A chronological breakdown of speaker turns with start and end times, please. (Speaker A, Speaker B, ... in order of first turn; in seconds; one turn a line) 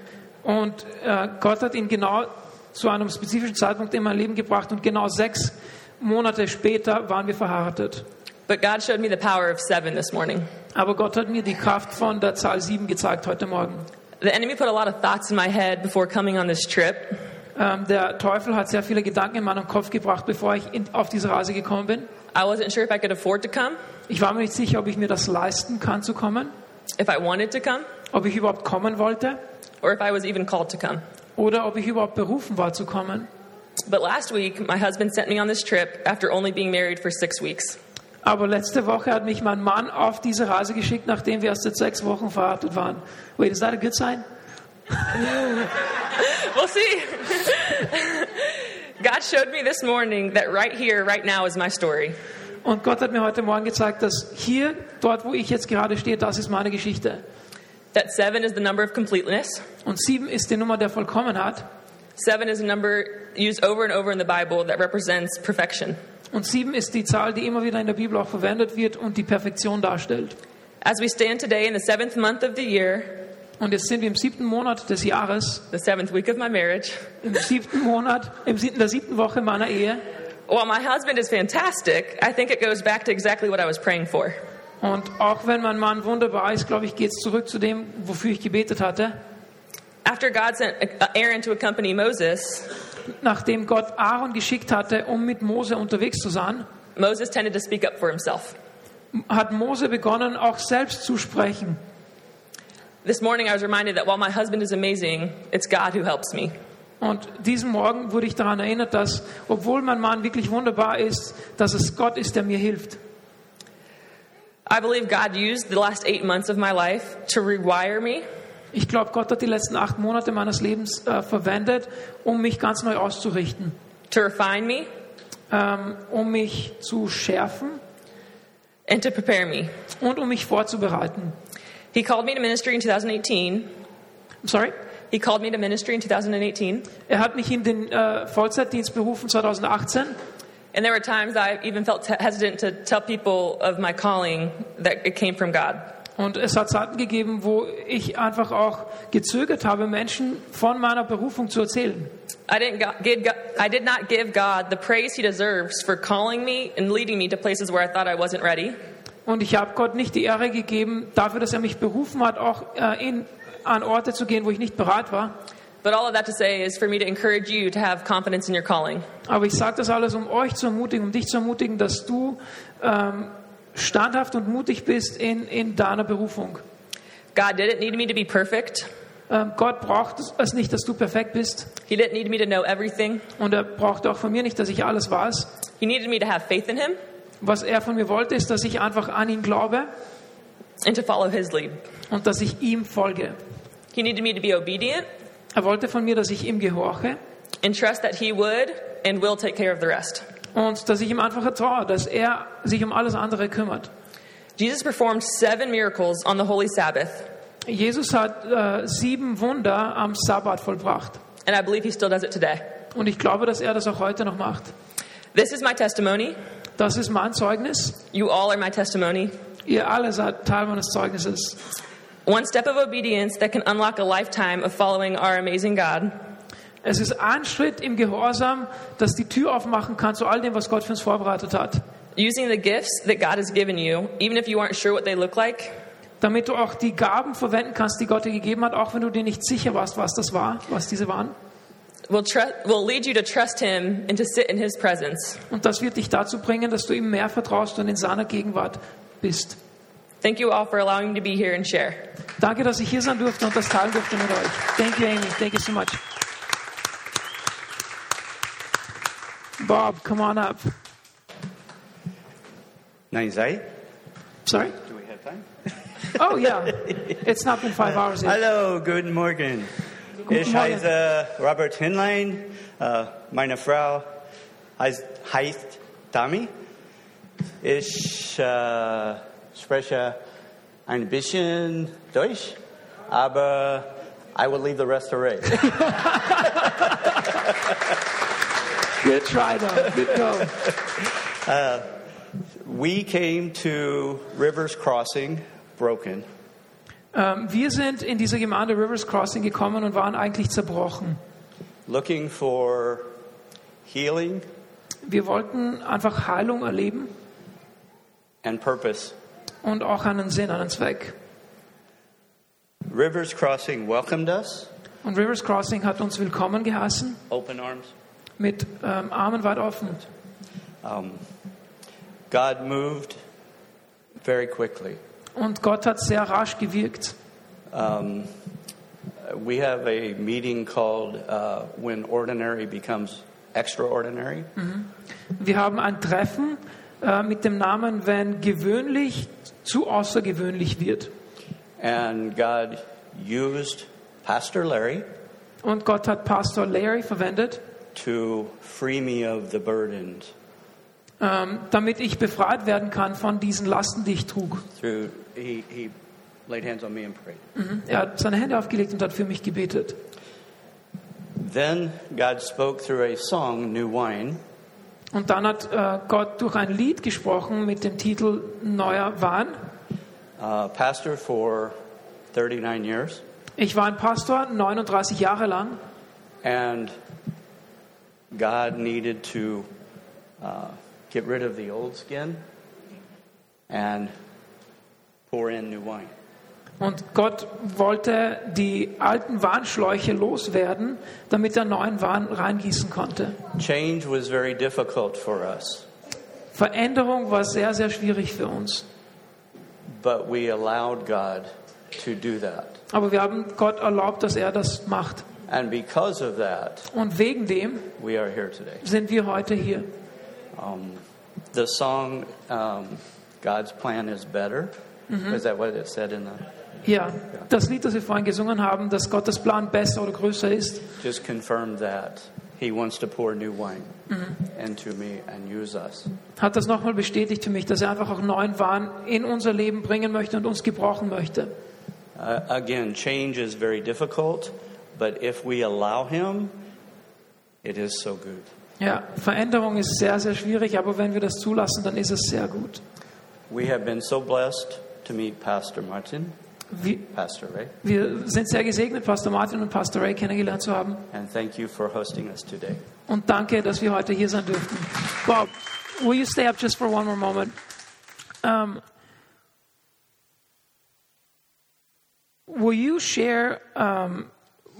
Speaker A: 0.4-8.1
Speaker B: 8.5-10.5
Speaker A: 10.7-13.8
Speaker B: 14.2-17.2
Speaker A: 17.6-22.1
Speaker B: 22.3-23.8
Speaker A: 24.1-26.5
Speaker B: 27.0-27.9
Speaker A: 28.1-29.4
Speaker B: 29.8-31.0
Speaker A: 31.4-33.3
Speaker B: 33.9-37.8
Speaker A: 38.2-44.2
Speaker B: 45.1-52.1
Speaker A: 52.6-57.2
Speaker B: 57.9-59.6
Speaker A: 59.8-61.7
Speaker B: 62.2-66.0
Speaker A: 66.3-70.4
Speaker B: 70.8-73.3
Speaker A: 73.6-75.6
Speaker B: 75.7-77.0
Speaker A: 77.2-80.0
Speaker B: 80.5-84.4
Speaker A: 84.8-89.2
Speaker B: 90.0-92.7
Speaker A: 93.2-96.7
Speaker B: 97.0-98.5
Speaker A: 99.1-101.8
Speaker B: 103.0-106.5
Speaker A: 107.0-113.0
Speaker B: 114.7-118.2
Speaker A: 118.7-123.7
Speaker B: 124.1-124.9
Speaker A: 125.5-127.8
Speaker B: 128.9-129.7
Speaker A: 130.0-131.3
Speaker B: 131.9-133.7
Speaker A: 134.4-134.7
Speaker B: 135.1-136.9
Speaker A: 137.1-140.2
Speaker B: 140.7-145.9
Speaker A: 146.2-152.1
Speaker B: 152.5-158.8
Speaker A: 159.2-165.3
Speaker B: 165.8-169.1
Speaker A: 169.2-176.6
Speaker B: 177.3-178.9
Speaker A: 179.3-181.7
Speaker B: 181.9-183.2
Speaker A: 183.4-185.5
Speaker B: 185.8-187.0
Speaker A: 187.4-189.9
Speaker B: 190.8-191.8
Speaker A: 192.1-193.4
Speaker B: 193.9-195.1
Speaker A: 195.5-197.2
Speaker B: 197.6-200.2
Speaker A: 200.5-203.9
Speaker B: 204.6-207.3
Speaker A: 207.7-211.2
Speaker B: 211.4-212.6
Speaker A: 212.9-214.7
Speaker B: 215.3-216.4
Speaker A: 216.8-218.0
Speaker B: 218.1-219.3
Speaker A: 219.7-221.6
Speaker B: 222.2-226.2
Speaker A: 226.8-231.8
Speaker B: 232.2-235.8
Speaker A: 236.2-241.3
Speaker B: 242.1-245.4
Speaker A: 245.5-249.6
Speaker B: 250.2-252.1
Speaker A: 252.4-256.0
Speaker A: 259.6-260.7
Speaker C: 263.1-263.7
Speaker A: 264.4-264.8
Speaker C: 264.8-265.5
Speaker A: 266.1-268.4
Speaker C: 268.1-269.7
Speaker C: 270.3-274.1
Speaker A: 270.3-270.9
Speaker C: 274.8-276.5
Speaker C: 277.6-280.2
Speaker C: 280.9-282.6
Speaker C: 283.1-285.9
Speaker A: 289.0-290.6
Speaker C: 291.4-291.9
Speaker C: 292.6-296.2
Speaker A: 297.1-301.2
Speaker C: 301.9-303.1
Speaker C: 303.9-304.4
Speaker A: 305.0-307.1
Speaker C: 308.4-309.1
Speaker A: 309.6-311.1
Speaker C: 312.9-314.7
Speaker A: 315.0-317.2
Speaker C: 317.3-317.9
Speaker A: 318.4-320.0
Speaker C: 320.8-321.2
Speaker C: 322.3-323.2
Speaker C: 324.2-325.0
Speaker A: 325.4-327.1
Speaker C: 327.7-328.3
Speaker C: 329.2-334.5
Speaker A: 334.6-341.1
Speaker C: 341.8-345.1
Speaker A: 345.6-347.6
Speaker C: 347.9-350.3
Speaker A: 351.2-354.6
Speaker C: 354.8-355.9
Speaker C: 356.5-357.4
Speaker A: 357.6-360.0
Speaker C: 361.4-364.4
Speaker A: 365.1-369.6
Speaker C: 370.4-371.8
Speaker C: 372.3-373.2
Speaker A: 373.6-375.8
Speaker C: 376.4-376.9
Speaker C: 378.3-379.7
Speaker C: 380.4-382.4
Speaker C: 383.7-384.1
Speaker C: 385.3-386.1
Speaker A: 386.8-393.4
Speaker C: 393.6-395.9
Speaker A: 396.5-398.9
Speaker C: 399.9-402.8
Speaker A: 402.9-405.2
Speaker C: 405.5-406.9
Speaker A: 406.9-407.9
Speaker C: 408.0-408.8
Speaker A: 408.8-409.9
Speaker C: 410.5-414.7
Speaker A: 415.1-415.4
Speaker C: 415.3-416.5
Speaker A: 416.8-420.9
Speaker C: 421.0-423.9
Speaker C: 424.5-426.1
Speaker A: 426.4-431.5
Speaker C: 432.1-436.6
Speaker C: 437.6-438.5
Speaker A: 438.8-442.8
Speaker C: 443.5-446.3
Speaker A: 446.7-447.0
Speaker C: 447.0-447.7
Speaker A: 447.8-451.1
Speaker C: 451.1-452.8
Speaker A: 453.1-457.6
Speaker A: 458.4-458.8
Speaker A: 462.5-464.3